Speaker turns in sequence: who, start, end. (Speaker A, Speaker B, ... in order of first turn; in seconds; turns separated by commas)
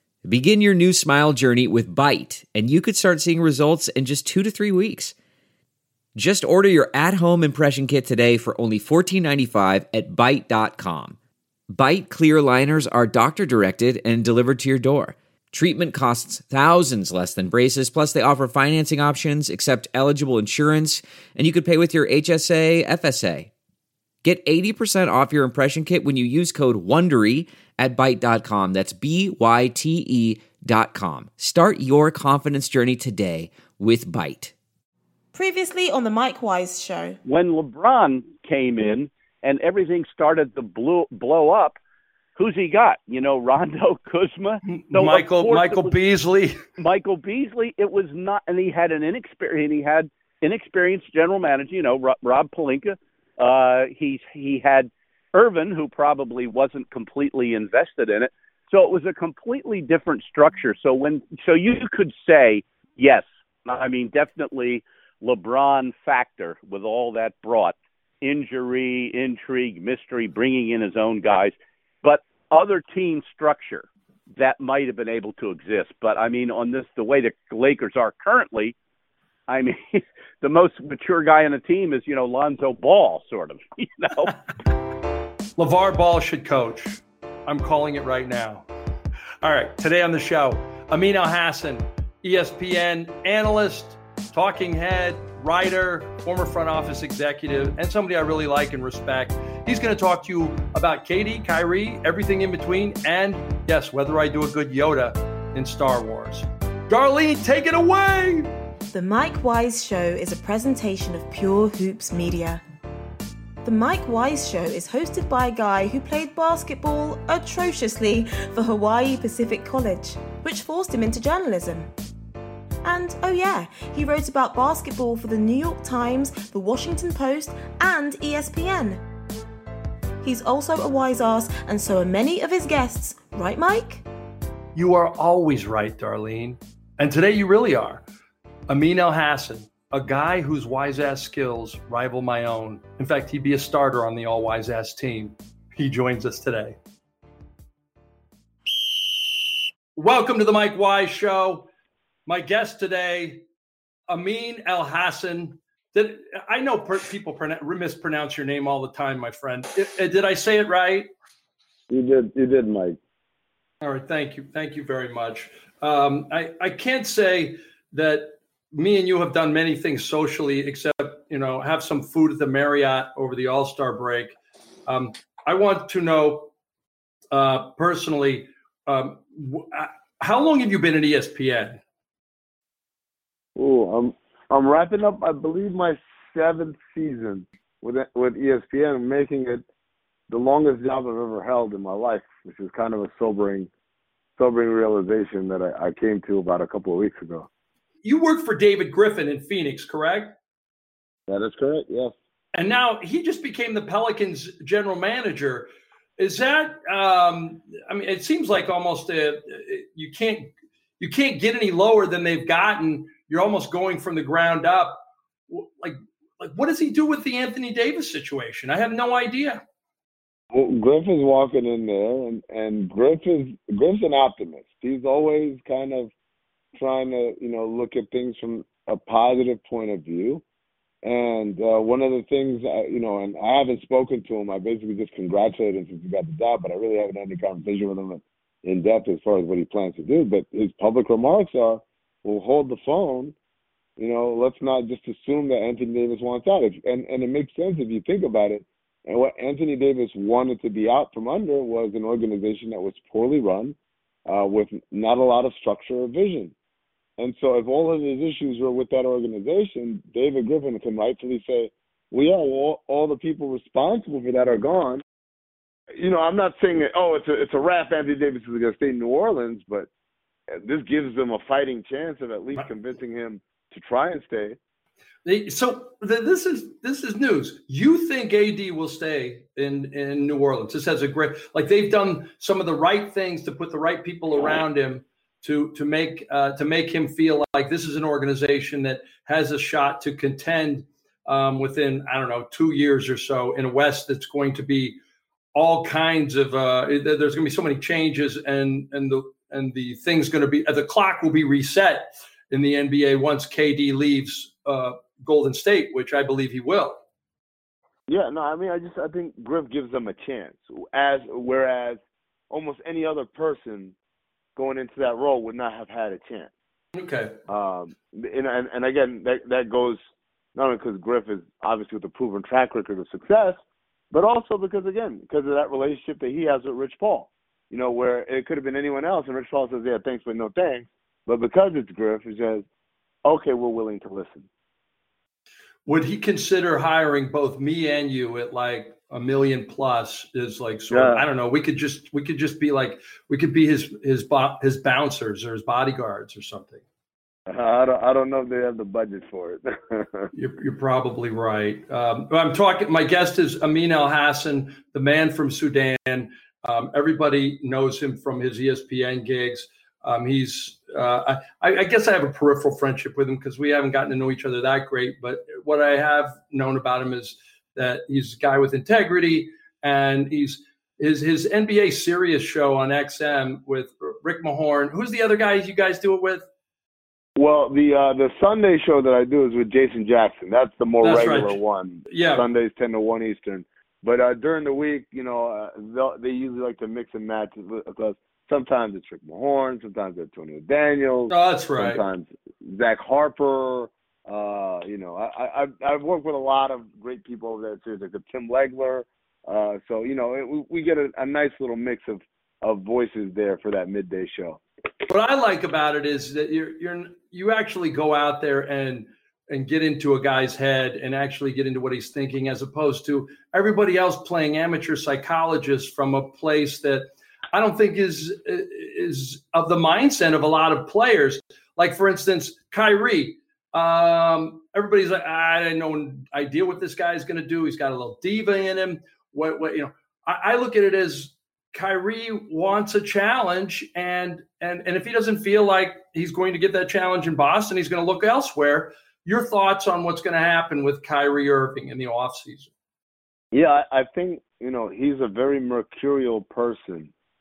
Speaker A: 0.2-5.1, Speaker A: 6.2-11.2, Speaker A: 11.7-23.5, Speaker A: 24.2-34.5, Speaker B: 35.3-37.2, Speaker C: 37.2-41.8, Speaker C: 42.4-45.9, Speaker D: 44.6-46.6, Speaker C: 46.8-73.8, Speaker C: 74.4-78.8, Speaker C: 79.5-84.3, Speaker D: 85.6-88.7, Speaker D: 89.4-108.5, Speaker B: 108.9-112.6, Speaker B: 113.6-121.9, Speaker B: 122.8-129.0, Speaker B: 130.2-134.0, Speaker D: 134.7-138.0, Speaker D: 138.7-146.8, Speaker D: 149.9-151.7, Speaker D: 152.3-153.4, Speaker D: 154.1-161.1, Speaker E: 161.9-163.0, Speaker D: 163.8-174.3, Speaker D: 174.9-176.5, Speaker D: 177.3-181.8, Speaker E: 183.6-189.6, Speaker E: 190.3-193.7, Speaker E: 194.4-197.5, Speaker D: 198.0-200.3, Speaker E: 201.3-202.2, Speaker D: 202.5-219.6, Speaker E: 220.5-226.1, Speaker E: 226.8-230.4, Speaker E: 231.0-243.3, Speaker E: 244.0-253.8, Speaker E: 254.3-256.5, Speaker E: 257.2-265.0, Speaker E: 265.9-269.9, Speaker E: 270.5-274.6, Speaker D: 275.2-295.0, Speaker D: 295.5-307.0, Speaker E: 308.1-312.0, Speaker E: 312.5-313.9, Speaker E: 314.6-316.5, Speaker D: 316.9-317.4, Speaker E: 317.5-320.0, Speaker E: 320.5-323.6, Speaker E: 324.1-332.6, Speaker E: 333.2-334.5, Speaker D: 335.9-346.8, Speaker E: 340.9-341.2, Speaker E: 347.5-350.3, Speaker D: 350.3-376.4, Speaker E: 377.4-404.6, Speaker D: 381.0-382.4, Speaker D: 391.3-392.0, Speaker D: 405.1-442.7, Speaker E: 443.5-447.1